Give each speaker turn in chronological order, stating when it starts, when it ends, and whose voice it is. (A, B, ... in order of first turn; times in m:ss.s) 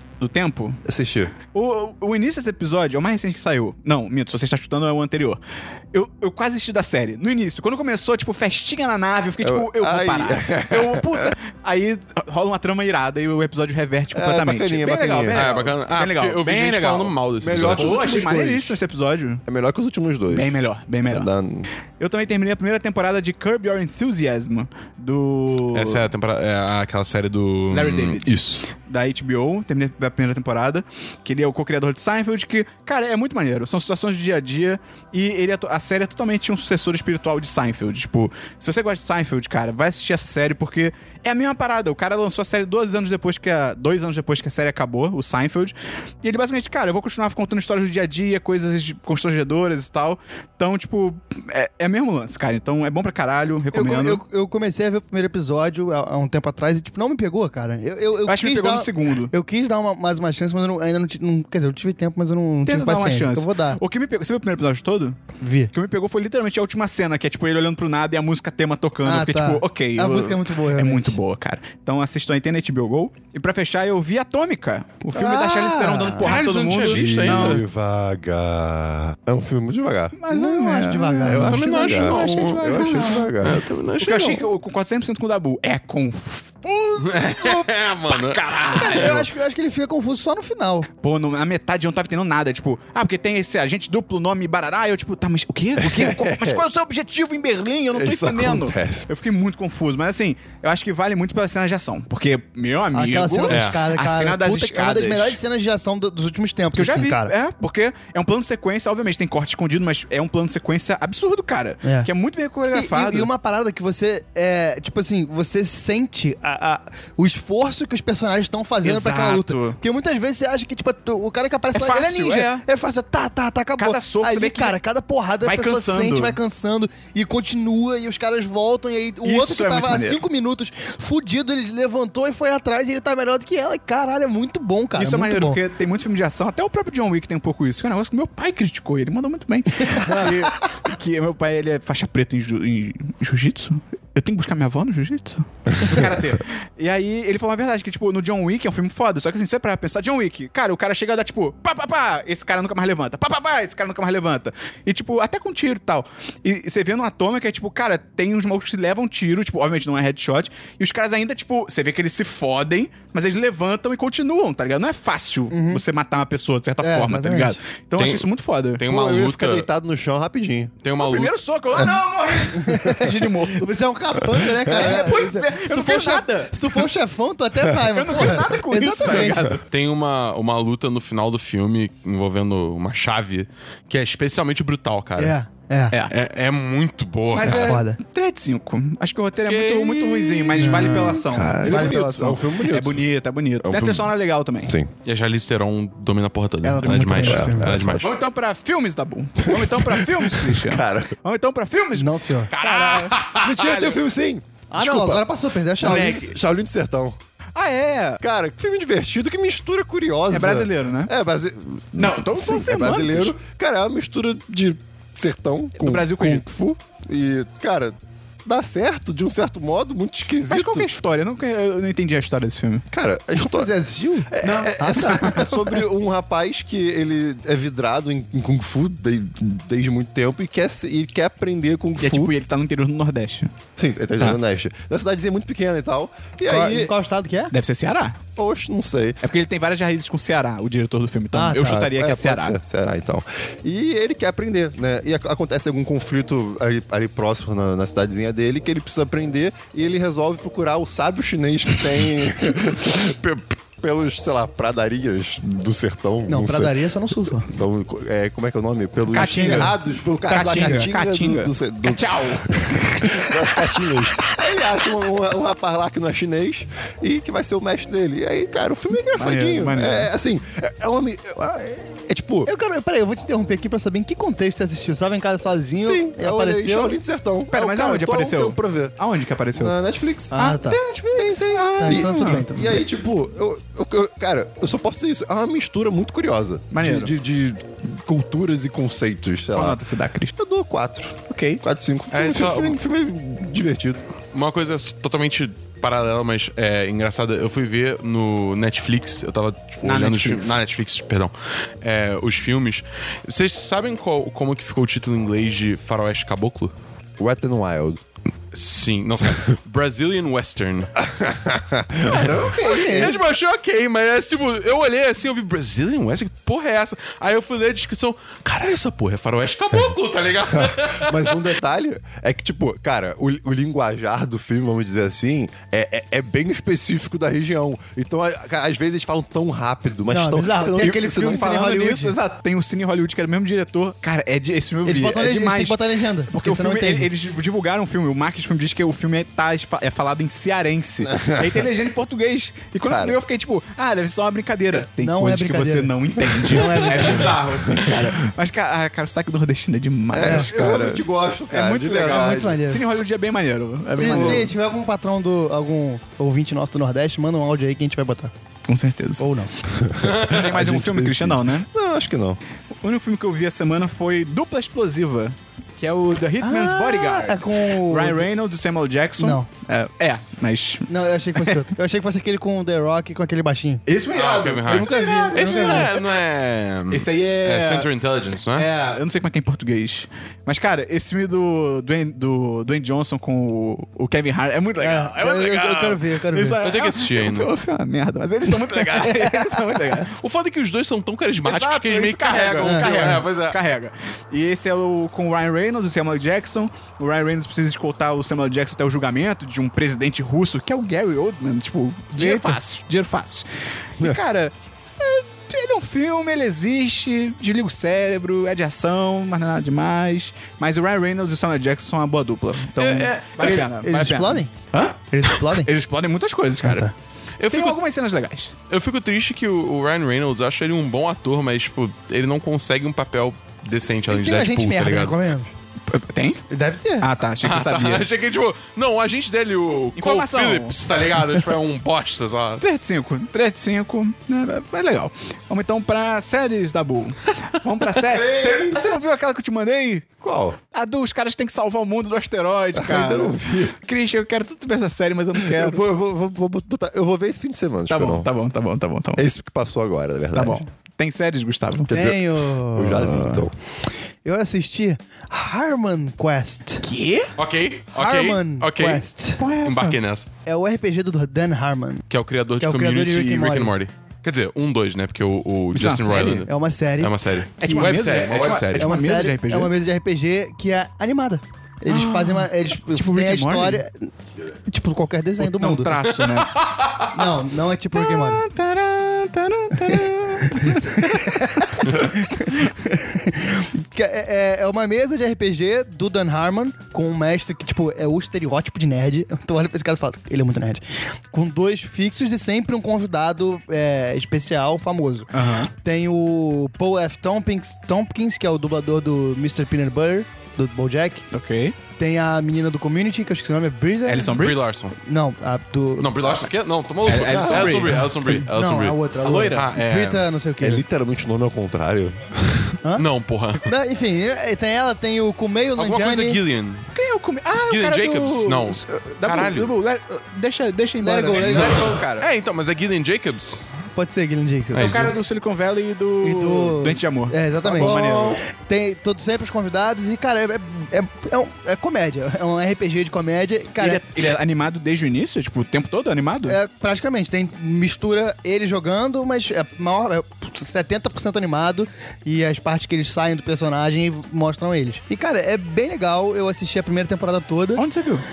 0:00.2-0:00.8 A
0:00.8-0:01.4 B
0:01.5-0:05.4 A
0:05.9-0:19.4 A
0:09.4-0:11.4 B
0:14.1-0:15.7 B
0:15.3-0:17.9 C
0:17.4-0:18.8 B
0:19.5-0:20.5 B
0:20.3-0:21.3 A
0:21.1-0:21.7 B
0:22.0-0:26.1 A
0:25.7-0:28.6 C
0:27.7-0:54.2 A
0:53.7-1:03.8 D
0:58.3-0:59.3 A
1:02.6-1:05.2 A
1:05.4-1:05.7 D
1:05.7-1:17.6 A
1:09.0-1:11.2 D
1:15.1-1:16.3 D
1:16.2-1:17.6 C
1:16.7-1:20.2 B
1:20.2-1:29.2 A
1:20.3-1:22.3 D
1:21.2-1:23.6 B
1:21.4-1:24.4 C
1:27.0-1:29.2 C
1:28.7-1:30.9 D
1:31.0-1:45.4 A
1:35.8-1:36.6 B
1:37.9-1:39.1 B
1:42.9-1:47.3 D
1:43.5-1:43.8 C
1:46.7-1:53.3 A
1:51.8-1:52.1 D
1:52.7-2:15.6 D
1:58.8-1:59.8 A
2:01.7-2:02.6 A
2:03.8-2:04.8 A
2:05.4-2:06.4 A
2:09.2-2:10.2 A
2:14.9-2:48.9 A
2:19.8-2:20.5 D
2:20.1-2:20.4 B
2:45.5-2:45.8 D
2:46.8-2:47.6 D
2:48.0-2:49.7 C
2:48.8-2:50.7 B
2:50.8-2:51.3 C
2:51.0-2:53.7 A
2:52.5-2:59.6 D
2:54.6-2:56.9 A
2:57.7-2:59.6 A
2:59.7-3:05.4 C
3:05.2-3:06.0 D
3:06.1-3:07.8 C
3:07.3-3:14.7 A
3:07.6-3:08.0 D
3:09.4-3:10.7 C
3:10.6-3:11.9 D
3:11.6-3:13.0 B
3:13.6-3:14.9 B
3:15.0-3:18.1 C
3:16.6-3:17.8 D
3:17.2-3:18.1 B
3:18.0-3:23.2 A
3:19.4-3:21.2 B
3:21.9-3:22.5 D
3:22.5-3:24.0 C
3:23.4-3:25.3 B
3:24.7-3:26.2 D
3:25.8-3:27.2 B
3:25.8-3:26.3 C
3:27.6-3:28.2 A
3:28.2-3:40.9 B
3:30.3-3:31.1 A
3:31.9-3:33.4 A
3:35.8-3:36.5 A
3:40.5-3:42.8 A
3:42.9-3:43.7 B
3:43.4-3:45.8 D
3:44.3-3:52.3 B
3:44.4-3:45.4 A
3:52.0-3:53.5 A
3:53.8-3:56.9 B
3:56.4-3:57.5 D
3:57.5-3:58.2 A
3:58.4-3:59.2 B
3:59.2-4:02.6 A
4:01.3-4:01.9 D
4:01.6-4:16.8 B
4:16.3-4:17.5 D
4:17.5-4:32.5 B
4:19.1-4:24.0 A
4:19.3-4:19.8 D
4:20.3-4:20.9 D
4:29.1-4:30.1 A
4:32.5-4:37.0 D
4:35.8-4:38.9 B
4:37.5-4:39.8 A
4:39.5-4:40.3 B
4:40.3-4:42.5 A
4:40.3-4:42.8 D
4:41.1-4:49.8 B
4:46.7-4:47.1 A
4:49.5-4:50.3 A
4:50.4-4:54.0 B
4:51.3-4:51.6 A
4:52.1-4:52.8 C
4:54.3-5:06.7 C
4:59.8-5:00.6 A
5:07.2-5:08.0 B
5:08.5-5:10.9 C
5:11.0-5:12.5 B
5:12.0-5:13.2 A
5:12.6-5:13.2 D
5:12.6-5:21.4 C
5:20.5-5:31.4 B
5:30.1-5:32.1 D
5:30.8-5:54.5 A
5:34.8-5:37.1 D
5:41.0-5:41.6 B
5:42.9-5:43.2 B
5:45.0-5:47.4 D
5:50.1-5:52.6 B
5:52.1-5:52.8 D
5:53.9-5:58.3 D
5:54.0-5:54.5 B
5:58.7-5:59.2 A
5:59.2-5:59.5 D
5:59.7-6:02.4 B
6:00.0-6:00.3 C
6:00.2-6:01.7 A
6:02.8-6:11.6 A
6:06.4-6:08.3 D
6:09.2-6:09.5 D
6:10.9-6:13.8 D
6:13.9-6:16.2 A
6:14.1-6:18.7 C
6:14.6-6:15.9 D
6:16.9-6:17.9 A
6:18.5-6:30.1 A
6:24.8-6:26.6 D
6:26.6-6:27.5 C
6:29.0-6:29.6 D
6:30.1-6:33.6 C
6:31.4-6:56.9 A
6:32.6-6:33.3 D
6:42.2-6:42.6 D
6:52.8-6:53.6 C
6:53.4-6:54.5 D
6:55.1-6:55.7 D
6:56.6-6:56.9 D
6:57.4-6:57.8 C
6:57.5-6:58.6 A
6:58.7-7:05.2 C
7:04.1-7:05.5 D
7:05.9-7:06.4 A
7:06.5-7:07.1 D
7:07.0-7:08.1 A
7:07.4-7:12.6 C
7:10.0-7:10.8 A
7:12.6-7:20.1 A
7:18.1-7:18.8 B
7:20.2-7:20.6 B
7:20.7-7:25.8 A
7:22.7-7:23.8 B
7:25.4-7:28.3 B
7:27.9-7:29.2 A
7:29.2-7:30.6 B
7:30.3-7:31.9 A
7:31.9-7:33.5 B
7:31.9-7:33.5 D
7:34.2-7:36.9 D
7:36.8-7:37.3 A
7:37.4-7:39.0 C
7:38.0-7:39.4 D
7:39.4-7:40.0 A
7:39.6-7:40.3 C
7:40.5-7:42.1 D
7:42.1-7:49.0 C
7:42.6-7:43.8 D
7:45.7-7:46.5 A
7:46.5-7:48.0 D
7:47.6-7:49.7 A
7:48.8-7:54.1 D
7:51.9-7:53.8 A
7:54.6-7:56.1 D
7:55.4-7:56.6 A
7:56.1-7:57.1 C
7:57.1-7:58.5 D
7:58.0-8:01.4 A
8:00.4-8:21.2 D
8:15.3-8:15.7 A
8:21.3-8:21.8 A
8:22.0-8:24.4 D
8:24.1-8:24.6 A
8:24.3-8:24.9 C
8:25.0-8:26.4 D
8:26.0-8:30.2 C
8:27.0-8:28.2 A
8:27.2-8:27.8 B
8:28.2-8:30.8 D
8:29.2-8:29.7 A
8:30.6-8:32.8 B
8:33.0-8:33.7 C
8:33.6-8:36.4 D
8:35.8-8:36.9 C
8:36.9-8:42.3 A
8:37.7-8:39.7 C
8:41.0-8:42.0 D
8:41.4-8:43.6 C
8:43.9-8:45.2 D
8:44.7-8:45.2 C
8:44.8-8:48.4 A
8:46.2-8:54.0 D
8:47.7-8:48.3 B
8:53.8-8:56.6 A
8:56.5-9:07.8 D
9:07.8-9:08.2 A